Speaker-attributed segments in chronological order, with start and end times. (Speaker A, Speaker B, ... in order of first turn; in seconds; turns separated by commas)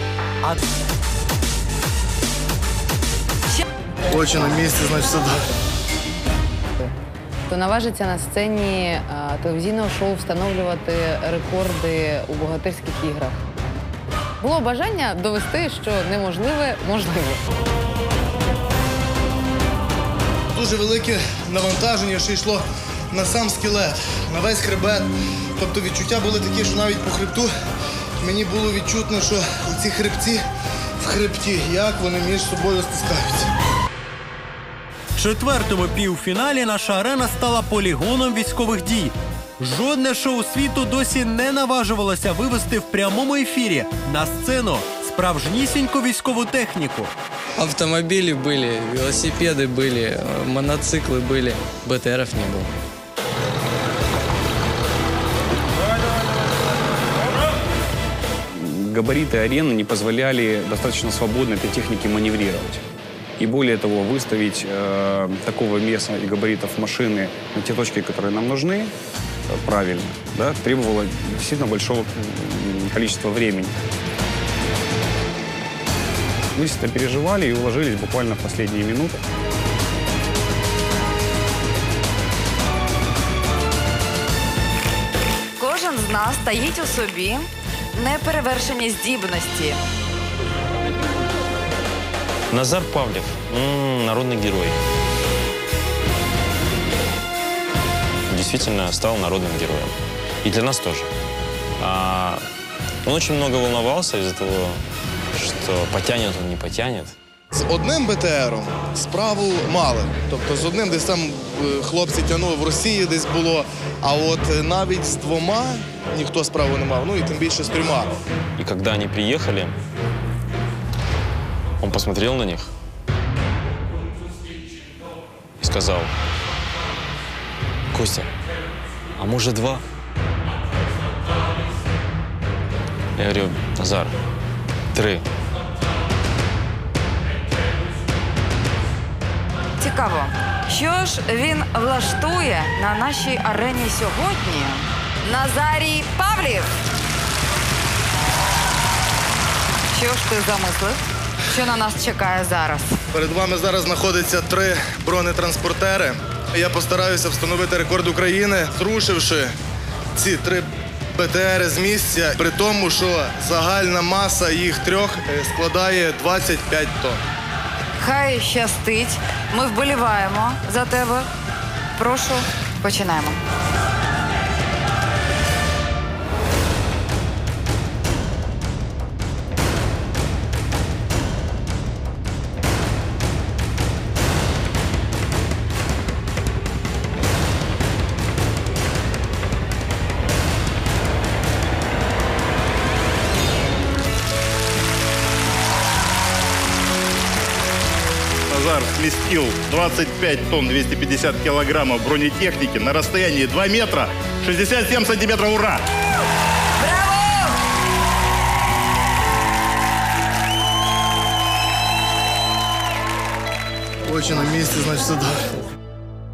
Speaker A: 4.1-5.4, Speaker B: 7.5-13.4, Speaker B: 14.4-17.4, Speaker A: 20.5-27.5, Speaker A: 28.2-30.4, Speaker A: 31.0-33.5, Speaker C: 35.2-47.1, Speaker D: 47.5-52.7, Speaker E: 58.6-62.8, Speaker E: 63.4-68.9, Speaker E: 69.5-73.8, Speaker E: 76.5-79.2, Speaker F: 85.6-89.8, Speaker G: 92.5-94.8, Speaker G: 98.3-101.1, Speaker G: 101.8-102.5, Speaker G: 103.0-104.8, Speaker G: 105.3-107.1, Speaker A: 107.5-118.1, Speaker G: 118.6-119.8, Speaker G: 121.8-122.7, Speaker G: 125.6-126.1, Speaker G: 127.9-128.3, Speaker G: 129.2-129.8, Speaker G: 133.2-134.2, Speaker G: 134.9-135.2, Speaker F: 139.8-146.7, Speaker F: 149.9-153.0, Speaker A: 153.1-159.5, Speaker A: 160.2-167.2, Speaker F: 168.0-171.3, Speaker F: 172.0-173.4, Speaker H: 198.5-205.8, Speaker A: 214.1-215.5